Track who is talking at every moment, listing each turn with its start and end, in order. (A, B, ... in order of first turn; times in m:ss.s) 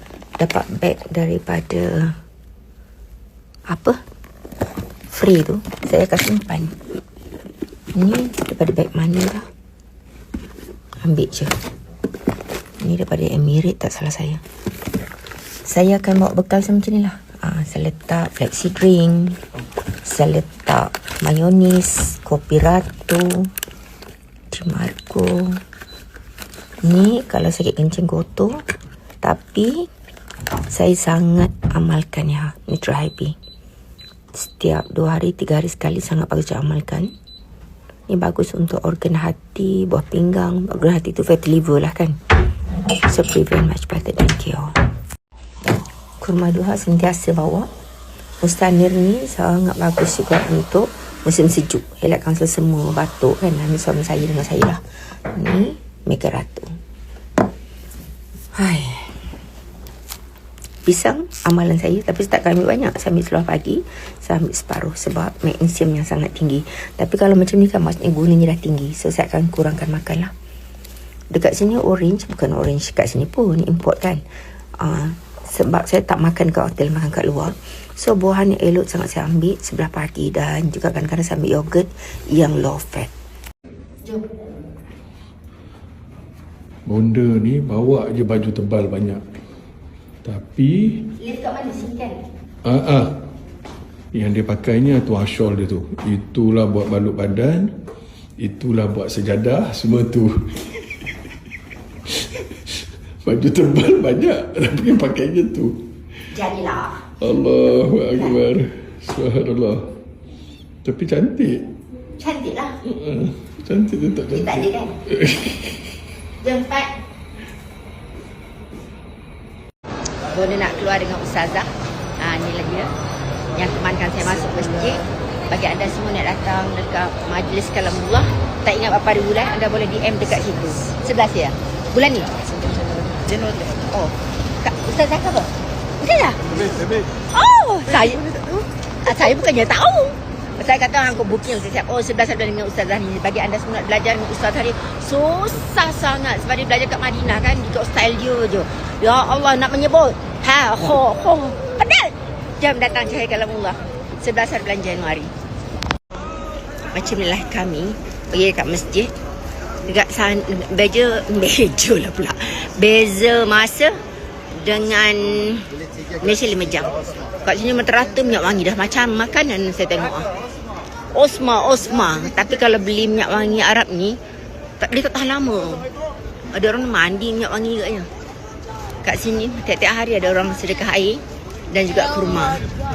0:00.4-0:02.1 A
0:03.7-0:04.0 A
0:05.1-0:06.7 A
0:07.9-0:09.4 A
0:11.0-0:11.5 A
0:12.8-0:14.4 A
0:15.6-0:19.4 A
0:20.0-0:23.5 A
0:24.5-0:25.6 A
0:26.8-0:28.6 A
0:29.2-0:29.9 A
0:30.7-0:33.4 A
0:34.3-0:37.1 A
0:38.1-0:42.2 A
0:43.1-0:44.7 A
0:46.2-0:47.7 A
0:48.4-0:56.8 A
0:58.5-0:59.1 A
1:00.8-1:10.3 A
1:11.3-1:14.2 A
1:14.8-1:23.1 A
1:26.9-1:29.2 B
1:30.2-1:31.0 B
1:31.2-1:32.2 A
1:32.6-1:33.2 B
1:34.1-1:37.7 B
1:38.4-1:40.8 B
1:42.1-1:45.8 B
1:46.3-1:47.0 A
1:47.2-1:49.9 B
1:50.8-1:51.6 B
1:52.2-1:52.8 A
1:52.8-1:55.9 B
1:54.3-1:54.9 A
1:56.4-1:56.9 A
2:00.3-2:02.9 A
2:03.5-2:12.3 A
2:13.5-2:16.5 A
2:17.3-2:35.3 A
2:36.9-2:39.1 A
2:39.8-2:44.0 A
2:44.5-2:45.7 A
2:46.2-2:46.9 A
2:47.4-2:50.3 A
2:51.1-2:54.2 A
2:54.8-2:55.9 A
2:56.5-2:58.1 A
2:59.0-3:02.6 A